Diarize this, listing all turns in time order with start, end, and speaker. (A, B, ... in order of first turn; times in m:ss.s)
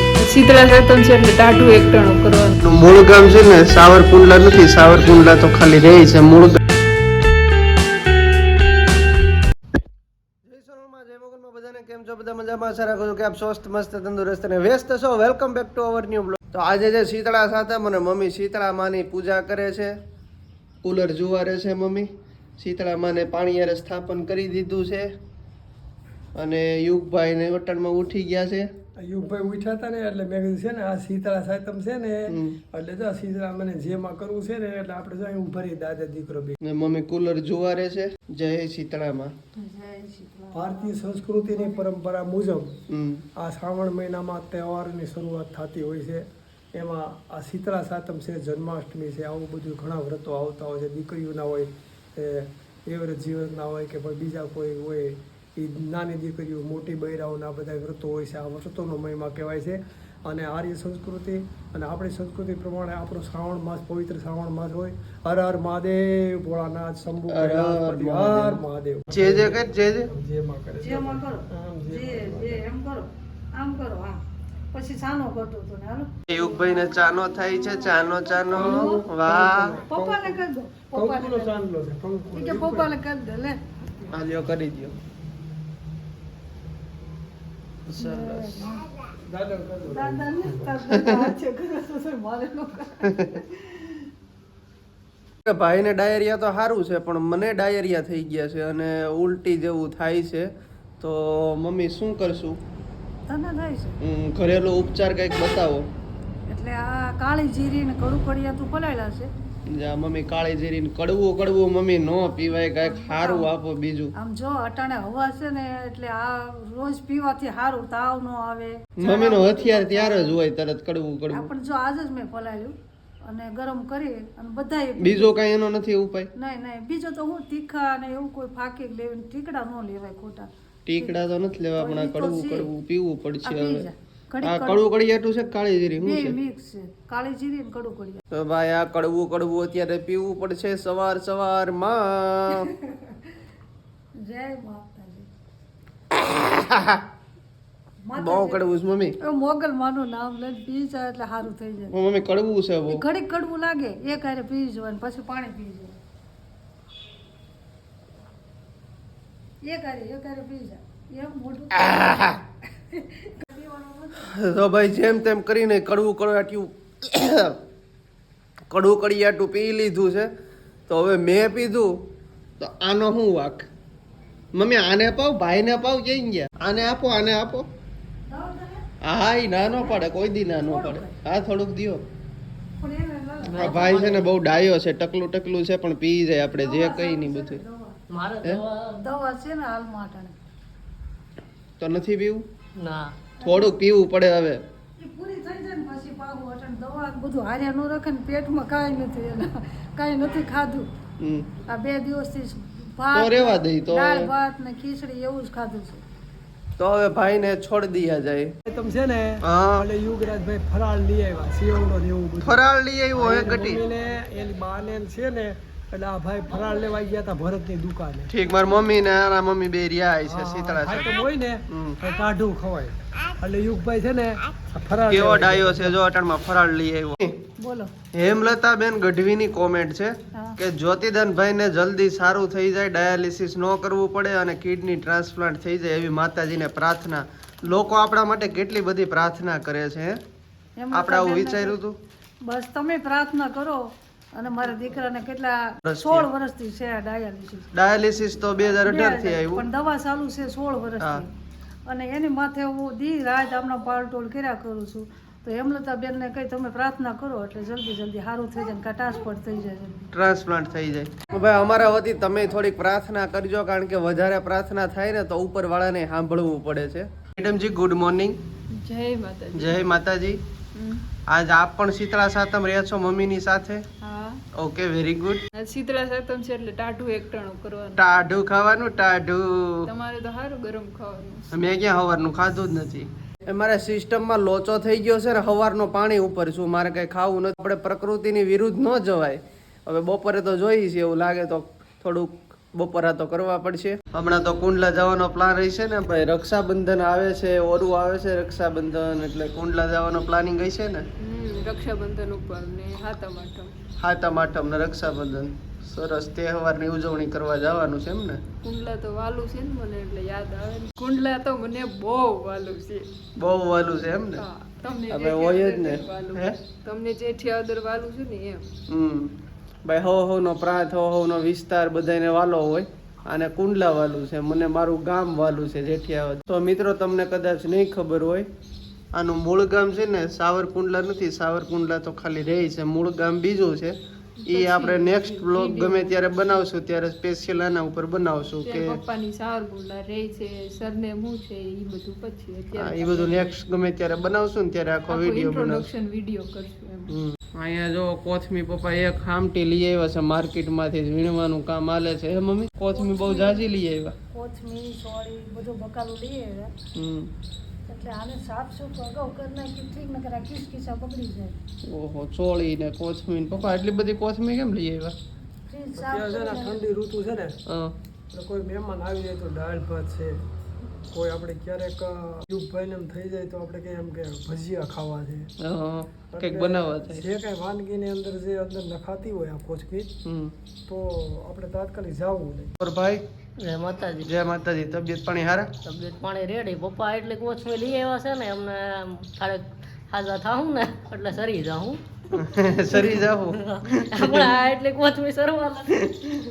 0:00.2-0:02.6 A
0:02.6-0:06.6 B
0:10.5-0:20.0 B
0:20.8-0:25.1 B
0:26.4-0:28.7 B
0:29.0-0:36.6 C
0:32.3-0:32.6 B
0:36.6-0:39.3 B
0:39.6-0:41.0 D
0:40.5-0:42.8 C
0:41.5-0:41.8 D
0:42.9-0:43.2 B
0:43.4-1:12.7 C
1:07.3-1:08.6 B
1:09.1-1:10.1 B
1:10.8-1:16.9 D
1:16.3-1:19.8 B
1:17.6-1:19.0 D
1:18.5-1:22.9 C
1:19.9-1:21.6 D
1:22.3-1:23.6 D
1:24.1-1:24.9 B
1:27.9-1:28.7 B
1:28.0-1:29.1 D
1:29.2-1:30.8 C
1:29.9-1:33.9 D
1:30.9-1:31.2 B
1:33.0-1:33.4 B
1:35.5-1:42.6 B
1:43.3-1:44.0 D
1:44.0-1:45.9 B
1:46.5-1:49.3 D
1:49.7-1:54.1 B
1:52.8-1:53.5 D
1:54.2-2:00.4 D
1:59.0-2:01.5 B
2:01.3-2:05.4 D
2:05.0-2:06.3 B
2:06.4-2:11.2 D
2:10.9-2:13.9 B
2:11.8-2:12.7 D
2:13.4-2:14.9 D
2:14.4-2:16.4 B
2:16.0-2:18.2 D
2:18.3-2:22.7 B
2:22.6-2:23.2 D
2:24.2-2:25.3 D
2:26.2-2:27.0 B
2:28.1-2:28.6 D
2:28.2-2:29.2 B
2:29.2-2:32.0 D
2:31.9-2:33.0 B
2:32.9-2:36.0 D
2:39.6-2:44.4 D
2:44.2-2:47.6 B
2:48.7-2:50.3 B
2:50.9-2:51.9 B
2:52.6-2:53.7 B
2:54.5-2:57.7 B
2:58.3-2:58.8 D
2:59.0-3:02.0 B
2:59.8-3:01.2 D
3:02.8-3:03.9 D
3:03.4-3:04.3 E
3:03.6-3:07.6 B
3:06.6-3:08.0 D
3:08.1-3:09.0 E
3:09.0-3:10.4 D
3:11.8-3:12.4 B
3:12.8-3:13.2 E
3:13.4-3:13.8 D
3:13.4-3:14.6 B
3:15.0-3:20.9 D
3:21.2-3:21.5 B
3:21.7-3:26.0 D
3:23.1-3:24.3 B
3:26.8-3:28.5 B
3:28.7-3:38.3 C
3:29.4-3:29.9 B
3:32.4-3:33.8 B
3:38.3-3:41.2 B
3:40.3-3:46.0 C
3:41.7-3:42.0 B
3:45.1-3:47.4 B
3:47.6-3:47.9 D
3:48.1-4:00.2 B
4:00.8-4:01.8 D
4:00.9-4:02.0 B
4:02.4-4:07.7 D
4:05.9-4:06.3 B
4:07.7-4:09.7 B
4:08.8-4:11.3 D
4:11.0-4:11.2 B
4:11.9-4:20.1 D
4:20.1-4:28.4 B
4:28.8-4:29.9 A
4:29.5-4:30.4 B
4:30.8-4:31.0 A
4:31.3-4:33.8 B
4:34.0-4:34.4 A
4:34.5-4:35.4 B
4:35.6-4:38.3 A
4:38.0-4:39.9 B
4:39.9-4:41.5 A
4:41.5-5:01.0 B
5:01.2-5:03.7 A
5:04.0-5:08.4 B
5:08.6-5:13.1 A
5:13.4-5:14.4 B
5:14.4-5:18.6 A
5:15.1-5:16.6 B
5:18.9-5:19.3 B
5:19.8-5:28.5 B
5:29.1-5:34.0 B
5:34.4-5:36.7 A
5:34.5-5:39.0 B
5:38.6-5:43.5 A
5:42.8-5:45.9 B
5:45.1-5:47.1 A
5:47.1-5:54.2 B
5:52.9-5:53.7 D
5:54.3-5:56.8 D
5:57.0-5:57.3 B
5:57.9-6:01.6 D
6:01.9-6:05.2 B
6:05.7-6:06.8 D
6:06.0-6:07.6 C
6:07.7-6:07.9 B
6:08.3-6:10.4 C
6:11.1-6:15.5 C
6:15.6-6:17.3 B
6:16.3-6:20.1 C
6:20.2-6:20.5 B
6:20.9-6:22.7 C
6:22.8-6:23.2 B
6:23.6-6:24.3 E
6:24.2-6:25.7 B
6:25.8-6:32.0 E
6:32.3-6:34.6 B
6:33.2-6:35.9 E
6:36.0-6:36.3 B